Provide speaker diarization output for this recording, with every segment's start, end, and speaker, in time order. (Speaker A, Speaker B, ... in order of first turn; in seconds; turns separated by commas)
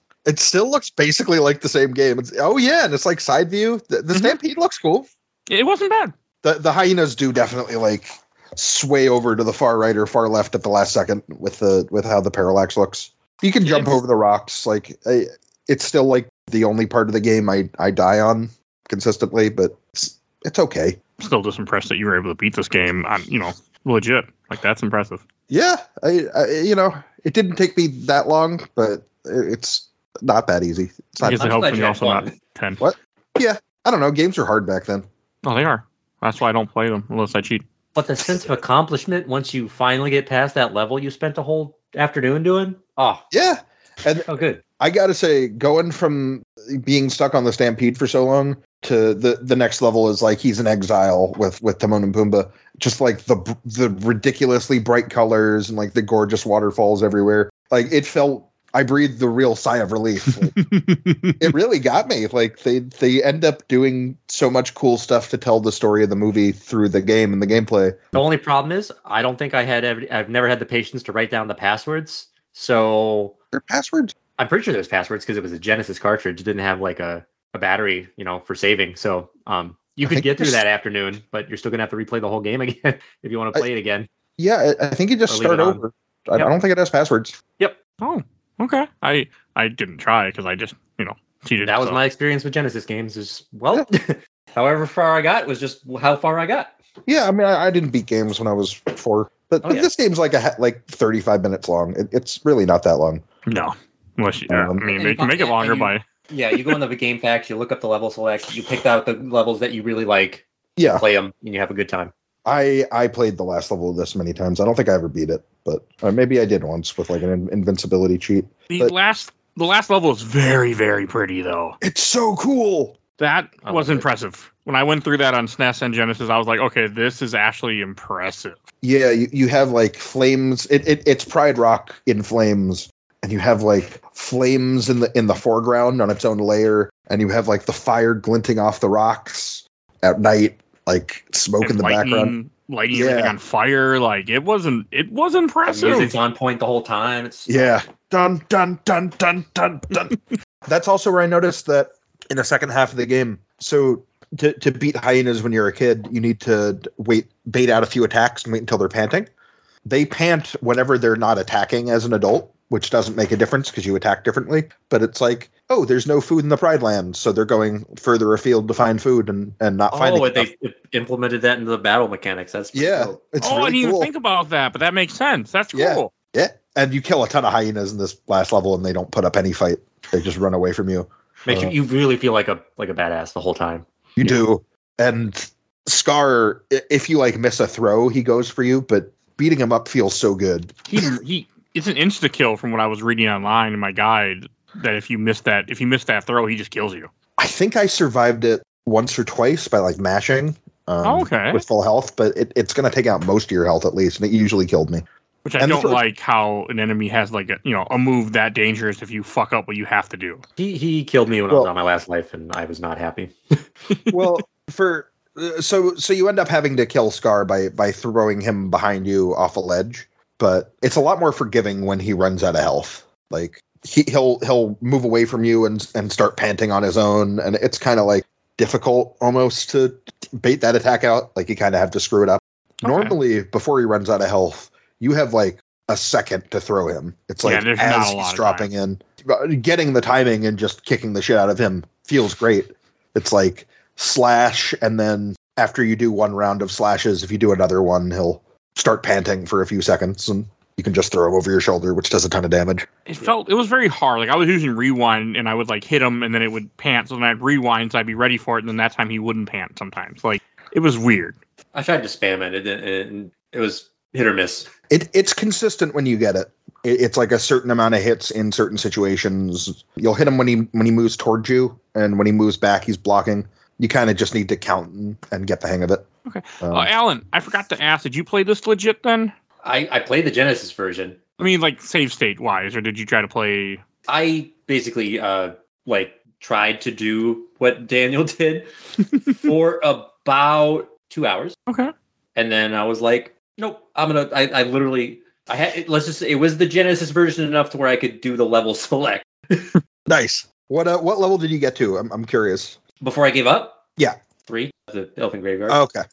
Speaker A: 0.3-5.1, Speaker B: 5.5-6.1, Speaker A: 6.4-21.0, Speaker B: 13.6-13.9, Speaker B: 21.2-25.2, Speaker A: 25.5-31.6, Speaker B: 31.2-32.8, Speaker C: 31.3-32.3, Speaker A: 32.8-35.1, Speaker B: 35.4-37.6, Speaker C: 37.9-43.2, Speaker A: 43.3-44.3, Speaker C: 44.3-44.6, Speaker A: 44.8-60.5, Speaker B: 60.3-61.5, Speaker A: 61.4-68.0, Speaker C: 68.1-73.3, Speaker A: 73.5-74.1, Speaker C: 74.4-84.1, Speaker A: 80.0-80.6, Speaker A: 84.4-87.4, Speaker C: 85.3-85.8, Speaker B: 88.0-92.0, Speaker C: 91.6-96.7, Speaker A: 97.1-103.2, Speaker C: 99.6-99.9, Speaker B: 103.5-106.0, Speaker A: 104.5-104.8, Speaker C: 104.8-112.1, Speaker A: 110.8-111.0, Speaker A: 112.4-118.9, Speaker B: 118.7-121.8, Speaker A: 121.8-123.0, Speaker B: 123.2-128.6, Speaker C: 123.7-124.0, Speaker A: 128.8-142.3, Speaker B: 141.6-146.1, Speaker A: 142.9-143.3, Speaker C: 145.7-147.8, Speaker A: 147.5-159.3, Speaker A: 159.8-170.5, Speaker C: 169.9-173.2, Speaker A: 172.7-174.1, Speaker B: 173.4-176.1, Speaker A: 175.7-181.8, Speaker C: 181.4-183.9, Speaker A: 184.2-191.1, Speaker B: 190.9-197.1, Speaker A: 197.4-205.1, Speaker B: 201.0-201.6, Speaker B: 205.4-210.4, Speaker A: 205.6-206.0, Speaker C: 210.6-213.6, Speaker A: 214.1-252.9, Speaker B: 232.8-233.2, Speaker B: 237.4-238.7, Speaker B: 253.1-261.4, Speaker C: 261.7-264.7, Speaker A: 264.9-276.1, Speaker B: 276.2-279.3, Speaker A: 276.6-276.9, Speaker C: 279.6-281.2, Speaker B: 281.4-283.8, Speaker C: 284.1-288.7, Speaker C: 289.3-291.6, Speaker B: 291.7-291.9, Speaker C: 292.4-299.8, Speaker A: 300.1-302.8, Speaker C: 303.0-303.8, Speaker C: 304.4-305.8, Speaker A: 305.7-306.0